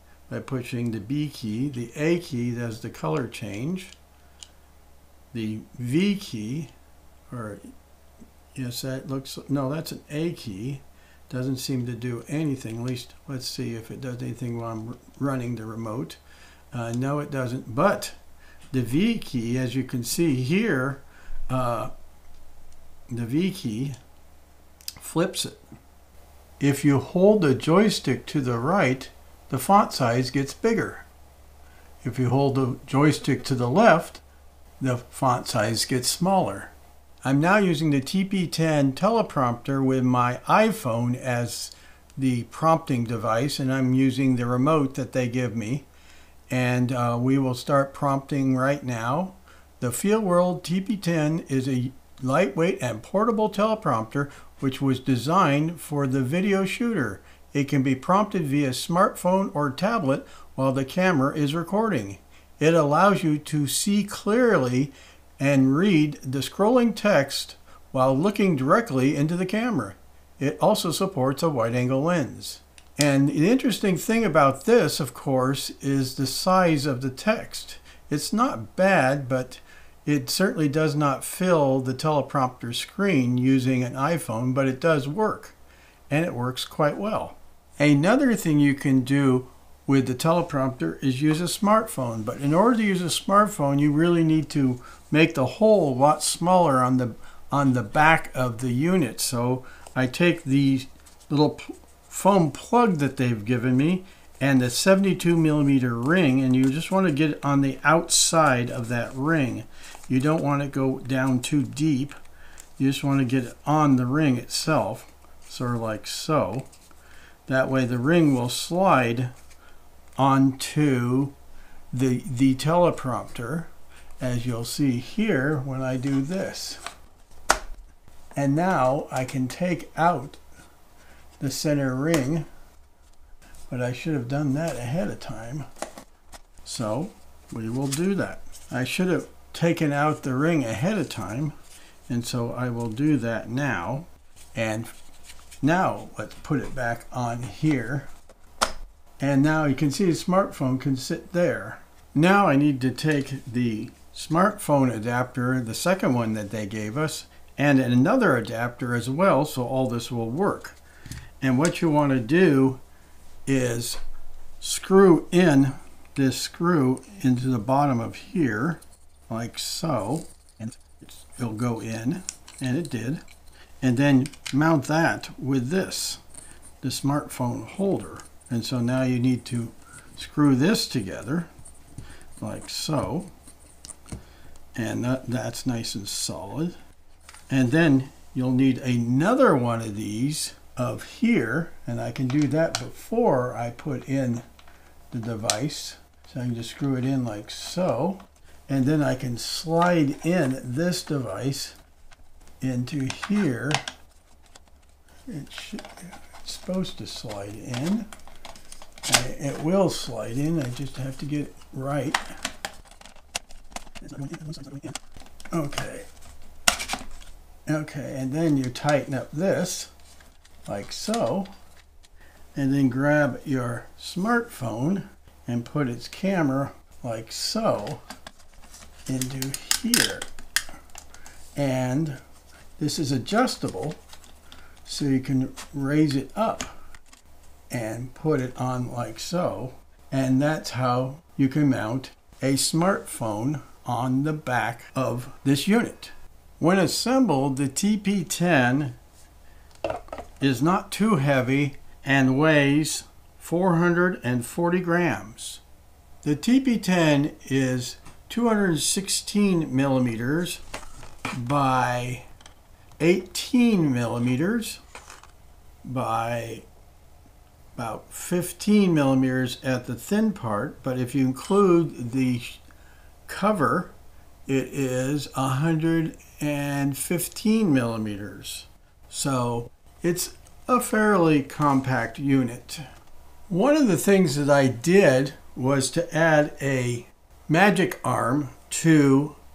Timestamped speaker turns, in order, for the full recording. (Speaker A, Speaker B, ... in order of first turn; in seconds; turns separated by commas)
Speaker A: 0.3-3.9, Speaker A: 5.3-6.7, Speaker A: 7.3-7.6, Speaker A: 8.5-16.2, Speaker A: 16.7-18.1, Speaker A: 18.7-21.9, Speaker A: 23.1-24.0, Speaker A: 25.0-25.6, Speaker A: 26.6-31.1, Speaker A: 32.0-34.2, Speaker A: 34.8-36.7, Speaker A: 37.2-45.9, Speaker A: 46.5-85.5, Speaker A: 86.1-112.2, Speaker A: 112.8-116.7, Speaker A: 117.5-119.3, Speaker A: 120.2-121.3, Speaker A: 121.9-126.8, Speaker A: 128.3-130.4, Speaker A: 131.4-132.5, Speaker A: 133.7-135.7, Speaker A: 136.6-141.5, Speaker A: 142.1-144.9, Speaker A: 145.6-148.1, Speaker A: 149.2-160.8, Speaker A: 161.4-162.8, Speaker A: 163.4-164.0, Speaker A: 164.6-173.2, Speaker A: 173.8-176.2, Speaker A: 176.8-181.5, Speaker A: 182.4-183.3, Speaker A: 184.8-186.8, Speaker A: 187.5-194.4, Speaker A: 195.1-201.8, Speaker A: 202.6-203.8, Speaker A: 205.3-208.1, Speaker A: 209.1-212.2, Speaker A: 214.0-215.0, Speaker A: 215.5-216.1, Speaker A: 217.7-219.9, Speaker A: 220.7-221.5, Speaker A: 222.5-228.0, Speaker A: 229.1-230.3, Speaker A: 231.6-232.2, Speaker A: 232.8-234.0, Speaker A: 234.8-236.7, Speaker A: 237.7-249.0, Speaker A: 250.4-255.6, Speaker A: 256.2-260.6, Speaker A: 261.3-262.3, Speaker A: 263.0-264.8, Speaker A: 265.8-266.6, Speaker A: 267.8-272.6, Speaker A: 273.2-273.9, Speaker A: 274.4-282.9, Speaker A: 283.5-289.4